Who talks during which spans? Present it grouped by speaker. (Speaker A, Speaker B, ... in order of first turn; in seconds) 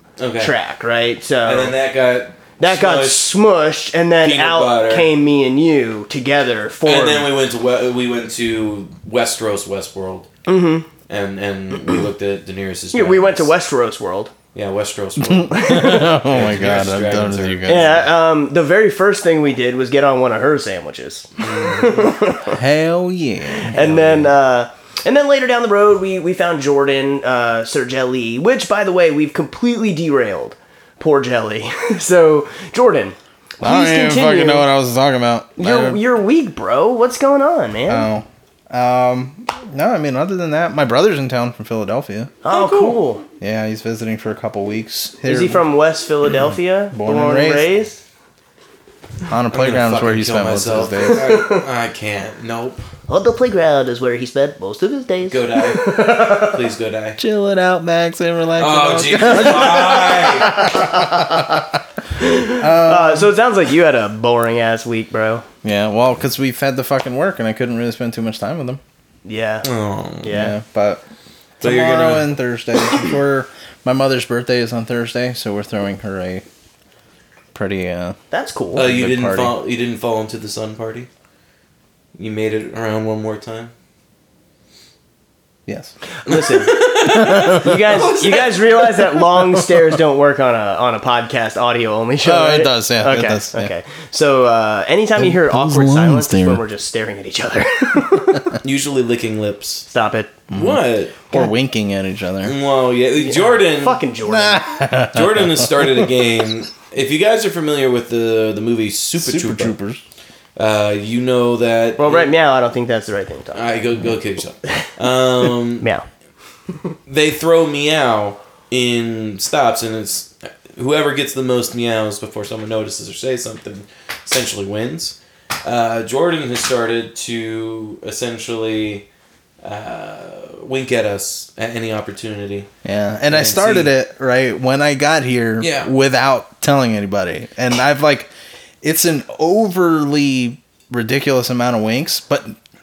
Speaker A: 0.2-0.5, 1.4-3.4, 4.2-5.1, 6.8-10.3, 11.1-13.5, 14.5-18.0, 21.4-22.1, 23.8-24.2, 42.5-42.9, 49.5-52.8, 55.3-57.2, 58.6-60.8, 69.6-70.4, 71.6-72.3, 78.7-81.1, 82.2-83.7, 86.3-89.3, 98.6-99.9, 100.5-101.2, 102.4-104.0, 105.0-109.8, 110.5-112.3, 113.5-115.9, 117.1-129.1, 129.6-132.7, 133.3-133.9, 135.6-135.9
Speaker B: 0.4-1.7, 2.6-7.3, 10.4-10.9, 12.9-14.3, 15.6-16.0, 17.7-22.6, 23.7-34.6, 35.6-38.1, 42.4-43.2, 45.2-48.0, 53.1-56.5, 60.4-61.6, 62.2-65.4, 69.2-69.7, 70.2-70.5, 78.3-78.8, 86.2-98.5, 99.9-100.3, 103.2-104.7, 112.0-113.8, 115.8-116.0
Speaker C: 15.2-18.0, 22.5-24.0, 33.6-36.0, 37.9-42.4, 43.4-45.6, 46.9-47.7, 49.3-51.4, 57.2-61.8, 62.5-63.3, 65.6-68.8, 70.3-71.0, 71.6-76.4, 77.5-78.2, 78.7-79.5, 85.7-85.9, 87.0-87.8, 92.2-93.7, 95.2-96.6, 100.5-102.5, 104.3-105.9, 109.2-110.0, 132.8-142.6